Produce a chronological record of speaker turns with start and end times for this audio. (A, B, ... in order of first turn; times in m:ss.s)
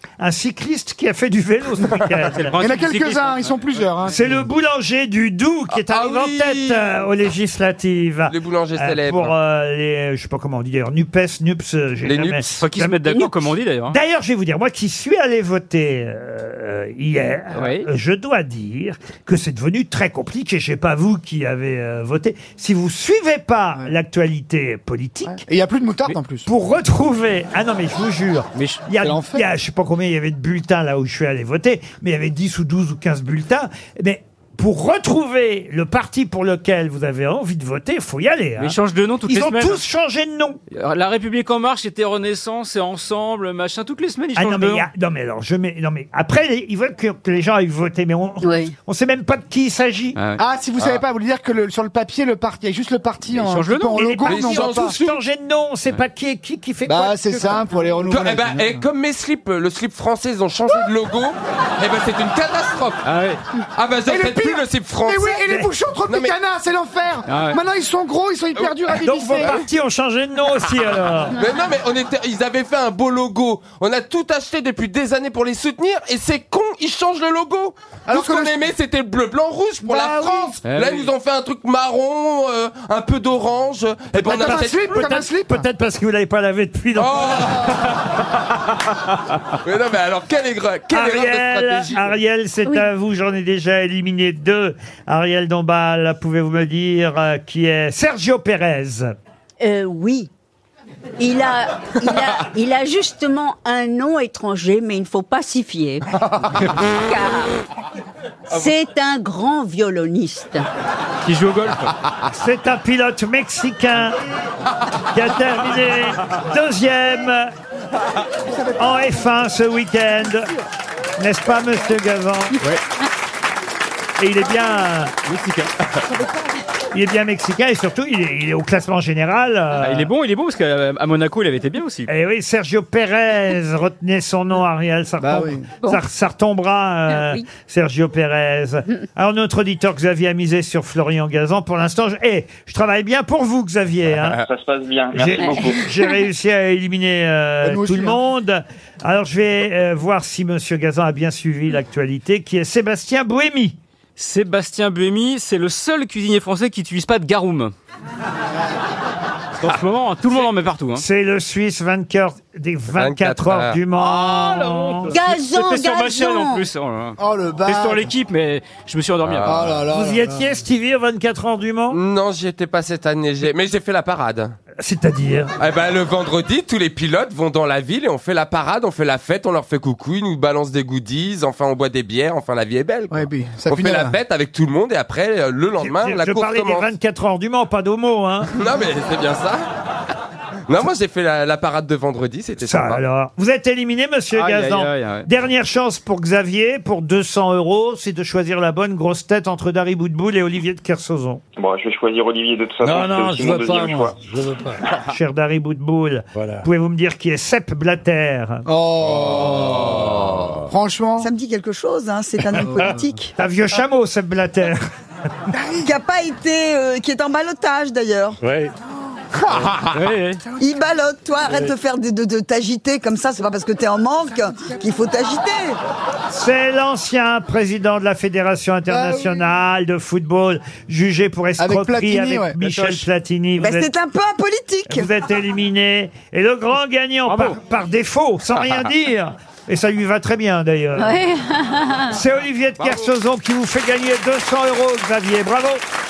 0:00.2-0:02.6 A
0:02.3-0:04.1 B
0:02.6-0:04.3 C
0:04.1-0:13.1 A
0:05.7-0:06.9 D
0:08.3-0:09.3 D
0:12.0-0:12.5 D
0:12.6-0:14.0 B
0:13.9-0:25.4 A
0:17.6-0:17.9 B
0:25.3-0:26.5 C
0:26.1-0:40.6 A
0:28.6-0:28.9 B
0:29.0-0:29.5 C
0:38.6-0:39.8 B
0:40.7-0:44.9 B
0:44.4-0:50.2 A
0:48.4-0:48.7 E
0:50.2-0:50.4 B
0:50.4-0:55.0 C
0:53.3-0:54.1 B
0:53.9-0:57.6 A
0:54.2-0:55.2 D
0:56.8-0:58.8 C
0:58.1-1:03.1 D
1:03.0-1:03.4 B
1:03.6-1:05.5 D
1:04.1-1:09.6 C
1:06.1-1:06.4 D
1:07.3-1:07.6 B
1:08.6-1:09.7 D
1:09.0-1:11.4 A
1:11.3-1:24.8 D
1:18.1-1:18.6 C
1:19.8-1:20.6 C
1:20.6-1:21.1 B
1:24.2-1:25.7 C
1:24.9-1:27.9 A
1:27.0-1:28.1 D
1:29.6-1:32.2 D
1:30.9-1:39.1 A
1:32.6-1:32.9 E
1:39.6-1:40.3 E
1:41.2-1:46.0 E
1:46.9-1:47.6 E
1:48.5-1:50.7 E
1:51.2-1:51.9 B
1:52.3-1:54.2 A
1:55.1-1:57.5 A
1:58.8-2:00.5 A
2:01.2-2:02.6 A
2:04.2-2:05.1 A
2:05.3-2:06.0 B
2:06.9-2:10.1 A
2:09.8-2:12.1 B
2:12.1-2:24.4 A
2:15.2-2:15.7 C
2:24.5-2:25.9 F
2:25.1-2:33.8 A
2:27.6-2:28.2 C
2:34.2-2:37.7 B
2:39.6-2:41.0 B
2:41.0-2:45.2 A
2:43.0-2:43.8 D
2:44.0-2:49.5 B
2:45.1-2:46.7 E
2:47.2-2:48.1 C
2:49.2-2:49.8 D
2:49.4-2:50.5 C
2:49.9-2:52.0 A
2:51.9-2:54.6 D
2:54.8-2:55.5 A
2:55.6-3:06.9 D
3:03.1-3:04.2 C
3:05.8-3:08.5 A
3:08.5-3:09.6 D
3:10.7-3:13.0 D
3:12.6-3:21.4 A
3:14.3-3:15.3 B
3:21.6-3:24.2 F
3:22.8-3:24.8 G
3:25.1-3:28.6 A
3:28.7-3:31.3 C
3:29.9-3:30.5 D
3:31.2-3:33.3 H
3:33.4-3:34.8 A
3:35.5-3:35.9 C
3:35.8-3:38.4 H
3:38.5-3:38.7 G
3:39.9-3:40.4 B
3:40.6-3:45.8 H
3:46.3-3:53.9 A
3:48.9-3:49.5 C
3:51.6-3:53.1 C
3:53.6-3:55.1 H
3:54.9-4:01.2 A
3:57.3-3:57.6 B
4:01.0-4:02.2 E
4:02.1-4:05.8 A